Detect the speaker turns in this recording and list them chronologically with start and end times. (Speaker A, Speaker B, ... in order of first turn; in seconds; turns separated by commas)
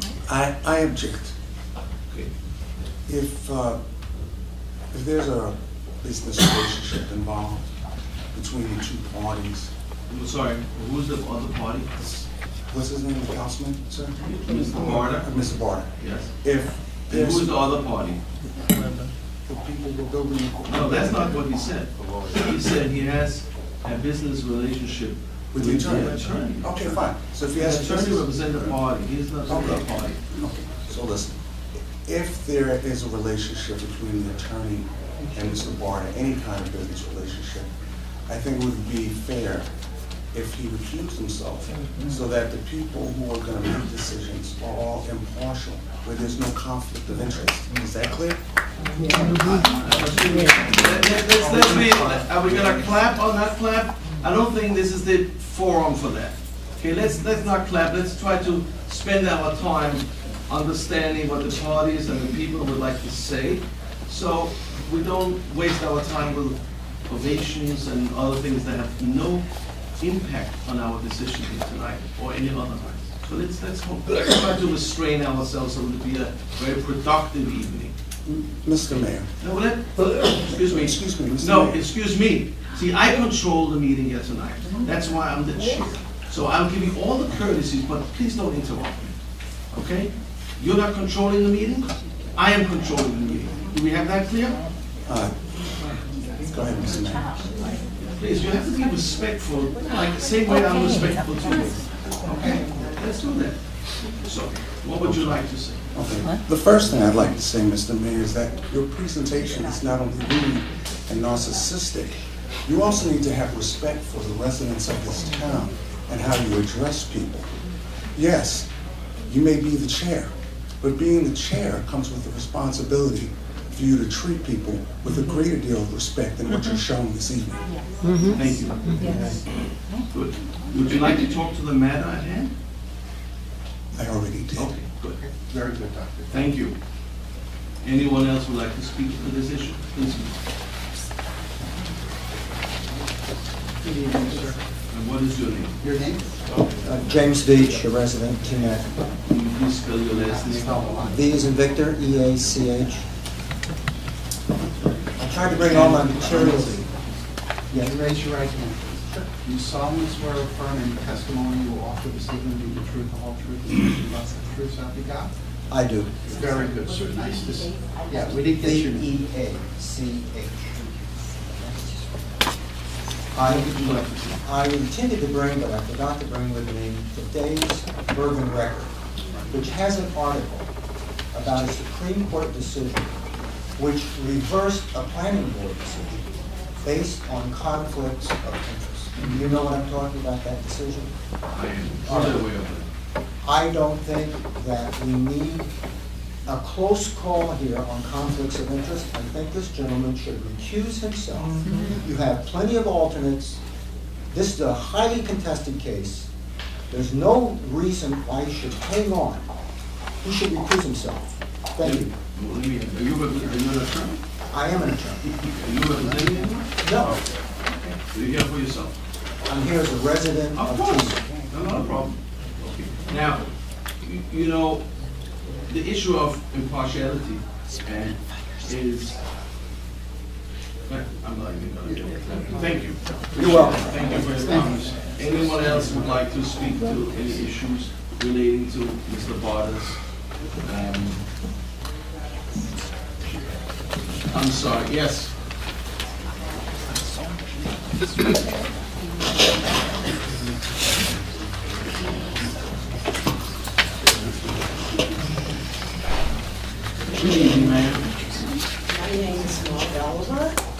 Speaker A: 0.2-1.3, Speaker A: 3.1-3.8, Speaker A: 4.9-7.7, Speaker A: 8.3-9.7, Speaker B: 10.1-12.2, Speaker A: 12.7-15.9, Speaker B: 14.2-15.3, Speaker B: 16.0-16.3, Speaker A: 16.4-17.7, Speaker B: 17.1-18.2, Speaker A: 19.5-21.4, Speaker B: 20.6-30.2, Speaker A: 22.0-22.4, Speaker A: 25.5-28.8, Speaker A: 29.5-31.4, Speaker A: 32.0-37.7, Speaker A: 38.3-39.7, Speaker A: 40.3-48.4, Speaker C: 49.0-49.6, Speaker B: 49.3-69.5, Speaker D: 49.4-50.6, Speaker D: 51.8-52.3, Speaker B: 70.0-77.9, Speaker A: 78.2-79.3, Speaker B: 79.0-89.1, Speaker A: 80.4-81.8, Speaker B: 89.7-94.6, Speaker A: 95.0-95.4, Speaker A: 96.5-97.5, Speaker B: 98.2-105.8, Speaker A: 105.0-117.5, Speaker A: 118.1-118.7, Speaker A: 119.3-127.6, Speaker B: 128.2-129.0, Speaker B: 130.1-132.5, Speaker A: 133.9-134.7, Speaker B: 134.5-135.2, Speaker D: 135.1-136.5, Speaker B: 136.3-136.7, Speaker B: 137.8-140.3, Speaker D: 143.8-144.6, Speaker B: 144.9-145.8, Speaker D: 145.8-146.4, Speaker E: 146.8-148.9, Speaker B: 149.2-151.0, Speaker D: 150.1-151.2, Speaker E: 151.0-153.0, Speaker D: 154.6-155.1, Speaker E: 155.2-156.8, Speaker B: 155.6-157.0, Speaker E: 157.7-158.0, Speaker D: 157.7-165.3, Speaker E: 165.7-166.2, Speaker D: 166.2-169.2, Speaker C: 166.3-168.5, Speaker E: 168.5-172.2, Speaker E: 173.3-178.9, Speaker B: 173.4-174.4, Speaker E: 179.5-180.7, Speaker E: 181.3-183.1, Speaker E: 183.8-186.2, Speaker E: 186.8-191.1, Speaker B: 191.5-192.8, Speaker E: 192.1-192.5, Speaker E: 193.4-195.7, Speaker E: 196.4-203.6, Speaker E: 204.3-206.3, Speaker E: 206.9-209.5, Speaker E: 210.2-212.1, Speaker B: 211.8-214.2, Speaker E: 214.5-215.3, Speaker B: 215.4-218.9, Speaker E: 216.8-217.2, Speaker E: 219.4-221.2, Speaker B: 220.5-223.5, Speaker B: 224.0-224.8, Speaker B: 225.7-229.2, Speaker B: 230.9-240.0, Speaker D: 231.9-232.2, Speaker E: 233.3-234.4, Speaker D: 234.0-236.2, Speaker B: 240.6-241.2, Speaker B: 244.3-245.3, Speaker D: 250.3-252.7, Speaker D: 254.0-255.2, Speaker B: 257.1-258.2, Speaker C: 258.9-260.6